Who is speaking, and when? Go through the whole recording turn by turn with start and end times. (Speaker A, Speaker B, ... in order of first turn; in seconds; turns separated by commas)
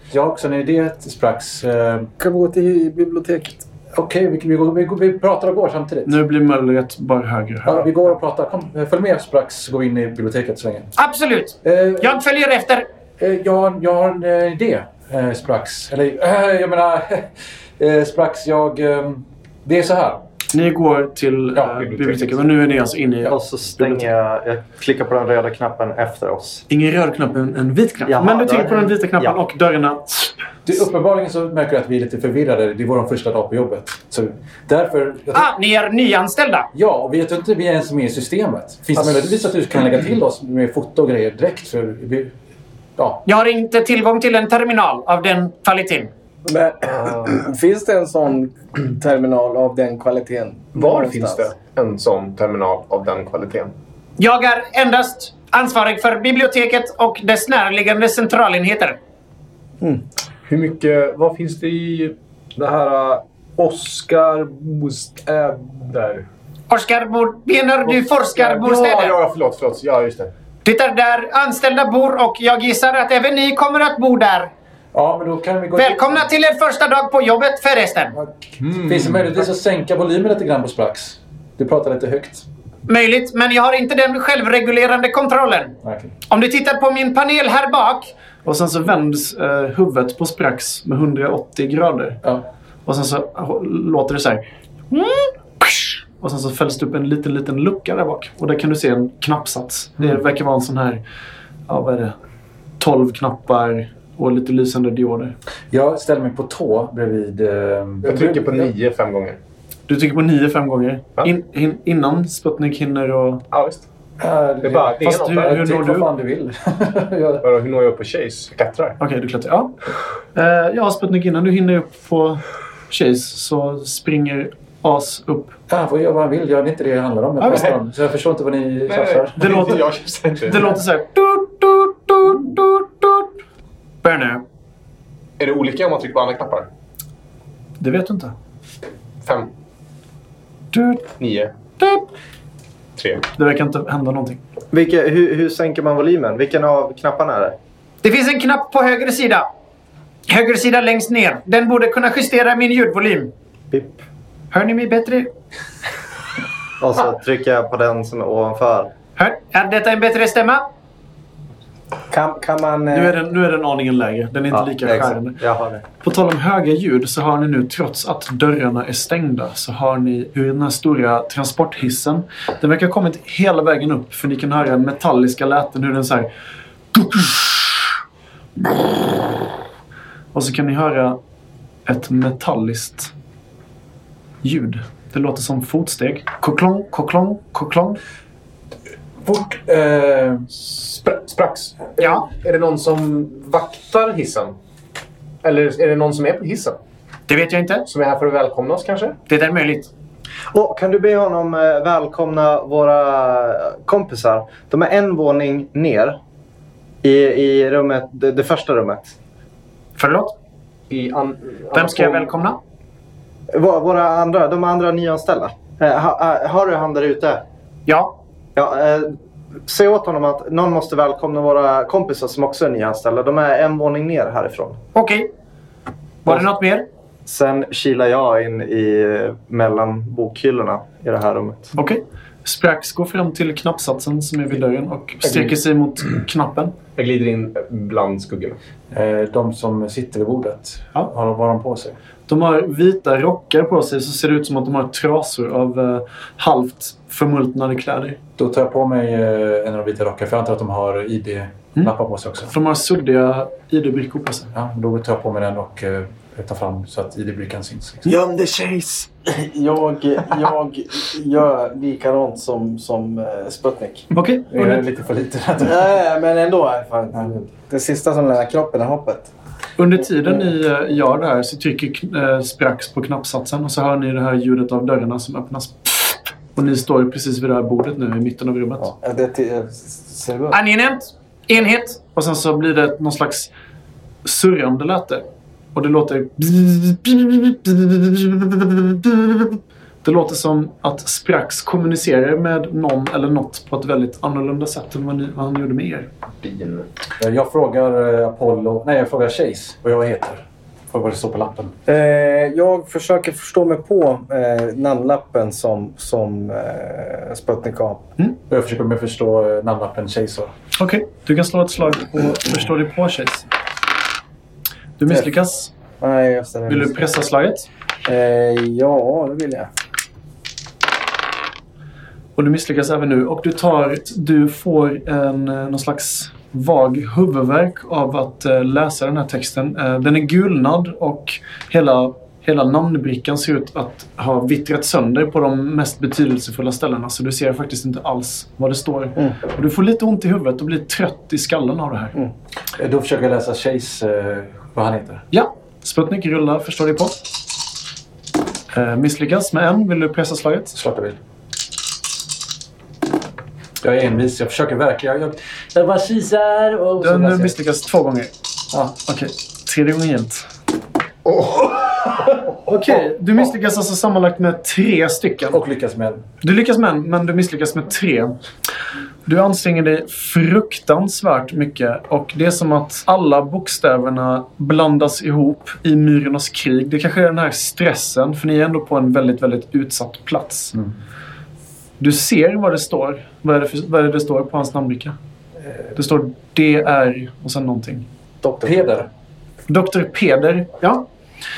Speaker A: 0.1-2.1, Speaker B: 2.2-3.6, Speaker A: 3.9-6.2, Speaker C: 6.0-7.9, Speaker A: 7.6-10.9, Speaker D: 11.0-12.8, Speaker A: 11.6-12.2, Speaker A: 13.2-20.2, Speaker C: 20.5-24.1, Speaker E: 21.7-22.3, Speaker F: 23.2-26.6, Speaker C: 26.7-30.3, Speaker F: 28.1-29.4, Speaker A: 30.6-35.5, Speaker D: 35.3-36.7, Speaker A: 36.7-42.3, Speaker A: 43.0-43.2, Speaker D: 43.2-46.1, Speaker B: 46.5-51.5, Speaker E: 50.7-53.7, Speaker D: 54.2-59.0, Speaker E: 60.5-66.2, Speaker D: 66.7-69.2, Speaker E: 67.9-70.3, Speaker D: 70.6-74.5, Speaker A: 74.9-76.3, Speaker D: 75.8-78.1, Speaker A: 78.1-82.5, Speaker E: 78.6-79.3, Speaker D: 82.9-85.7, Speaker A: 85.8-86.1, Speaker D: 86.3-88.1, Speaker C: 88.4-92.2, Speaker C: 92.8-101.0, Speaker C: 101.7-102.2, Speaker C: 102.8-105.3, Speaker A: 105.7-108.7, Speaker E: 108.0-109.4, Speaker C: 109.9-113.4, Speaker E: 113.5-113.8, Speaker A: 114.2-117.4, Speaker E: 114.6-115.5, Speaker C: 115.0-116.1, Speaker E: 117.4-119.0, Speaker C: 119.0-119.7, Speaker C: 120.3-125.6, Speaker A: 125.7-129.6, Speaker C: 127.4-127.7, Speaker E: 128.9-130.7, Speaker C: 129.4-129.9, Speaker C: 130.4-133.3, Speaker C: 134.0-134.4, Speaker E: 135.4-136.7, Speaker C: 137.8-138.3, Speaker E: 139.2-139.5, Speaker C: 140.7-141.1, Speaker E: 141.2-141.5, Speaker E: 142.9-143.2, Speaker C: 143.3-144.4, Speaker F: 144.7-147.6, Speaker D: 148.0-149.5, Speaker D: 150.3-153.3, Speaker F: 153.7-154.0, Speaker D: 154.5-155.3, Speaker F: 156.8-158.9, Speaker D: 159.2-160.6, Speaker B: 162.1-163.2, Speaker C: 162.9-165.4, Speaker F: 164.5-165.8, Speaker C: 166.0-176.3, Speaker C: 176.9-177.9, Speaker C: 180.3-181.2, Speaker C: 181.8-183.1, Speaker C: 184.4-188.0, Speaker A: 189.2-190.5, Speaker E: 190.7-194.5, Speaker D: 192.0-192.2, Speaker E: 195.4-196.8, Speaker D: 197.3-197.8, Speaker E: 197.9-199.2, Speaker D: 199.3-199.9, Speaker F: 200.5-206.2, Speaker F: 207.0-209.1, Speaker D: 210.0-210.3, Speaker E: 210.9-212.3, Speaker D: 211.7-212.6, Speaker F: 213.5-217.4, Speaker D: 217.9-218.1, Speaker F: 218.6-219.1, Speaker F: 219.7-224.8, Speaker D: 224.9-225.3, Speaker D: 226.2-226.8, Speaker F: 227.2-231.7, Speaker C: 231.8-236.7, Speaker E: 235.2-235.5, Speaker E: 236.9-238.6, Speaker A: 238.9-241.9, Speaker C: 242.3-248.2, Speaker A: 248.4-252.5, Speaker C: 252.5-254.5, Speaker A: 254.5-258.1, Speaker C: 258.1-259.0, Speaker B: 259.2-264.1, Speaker C: 264.1-264.8, Speaker A: 264.5-266.0, Speaker B: 265.6-269.3, Speaker C: 269.8-278.9, Speaker B: 278.8-280.6, Speaker D: 280.5-282.0, Speaker C: 282.1-283.5, Speaker C: 284.2-296.1, Speaker E: 296.4-296.8, Speaker A: 297.2-301.7, Speaker B: 301.9-308.1, Speaker A: 308.5-310.5, Speaker C: 310.8-313.4, Speaker C: 315.0-315.7, Speaker B: 316.0-317.0, Speaker C: 316.7-317.7, Speaker B: 318.0-319.7, Speaker C: 322.4-342.2, Speaker A: 342.8-345.2, Speaker C: 345.3-347.2, Speaker C: 348.7-350.8, Speaker A: 350.7-351.2, Speaker A: 353.8-357.5, Speaker C: 357.0-358.3, Speaker C: 359.0-360.5, Speaker E: 361.2-362.1, Speaker C: 362.6-365.6, Speaker A: 365.5-366.2, Speaker C: 366.4-368.4, Speaker C: 369.2-380.7, Speaker C: 382.0-385.1, Speaker C: 385.9-388.1, Speaker B: 388.4-388.9, Speaker A: 388.6-389.1, Speaker C: 389.7-391.0